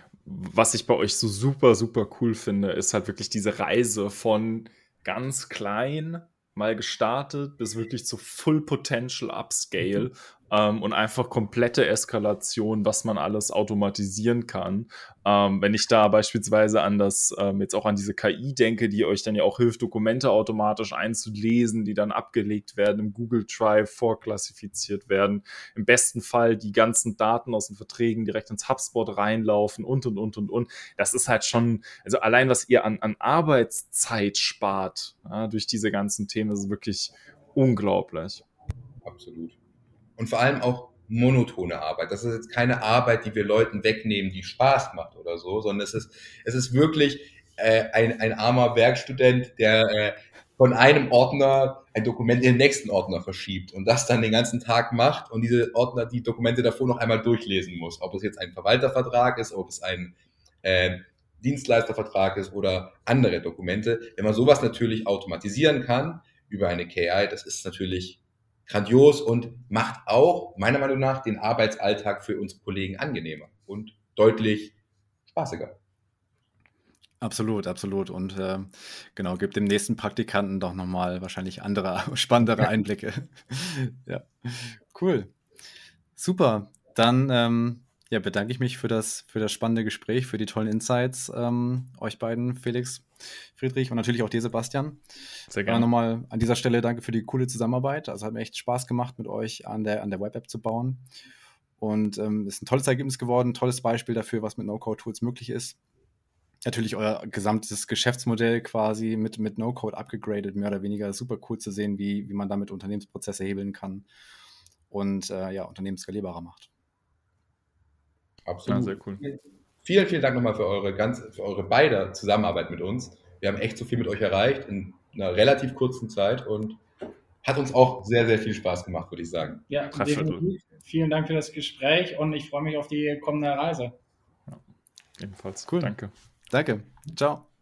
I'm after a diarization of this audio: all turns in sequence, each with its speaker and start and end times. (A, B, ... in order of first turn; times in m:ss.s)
0:00.2-0:38.4 A
0:39.0-0:39.6 B
0:40.2-1:14.7 B
1:15.3-1:15.8 B
1:17.2-1:25.3 C
1:26.2-1:35.0 C
1:35.5-1:35.9 A
1:35.6-1:41.0 C
1:41.8-1:45.8 C
1:46.6-1:54.0 C
1:54.9-1:56.7 C
1:58.4-2:06.8 B
1:58.6-1:59.2 A
2:07.4-2:09.6 B
2:09.7-2:13.9 D
2:09.9-2:10.4 A
2:15.2-2:16.1 A
2:15.7-2:16.0 C
2:16.5-2:17.4 C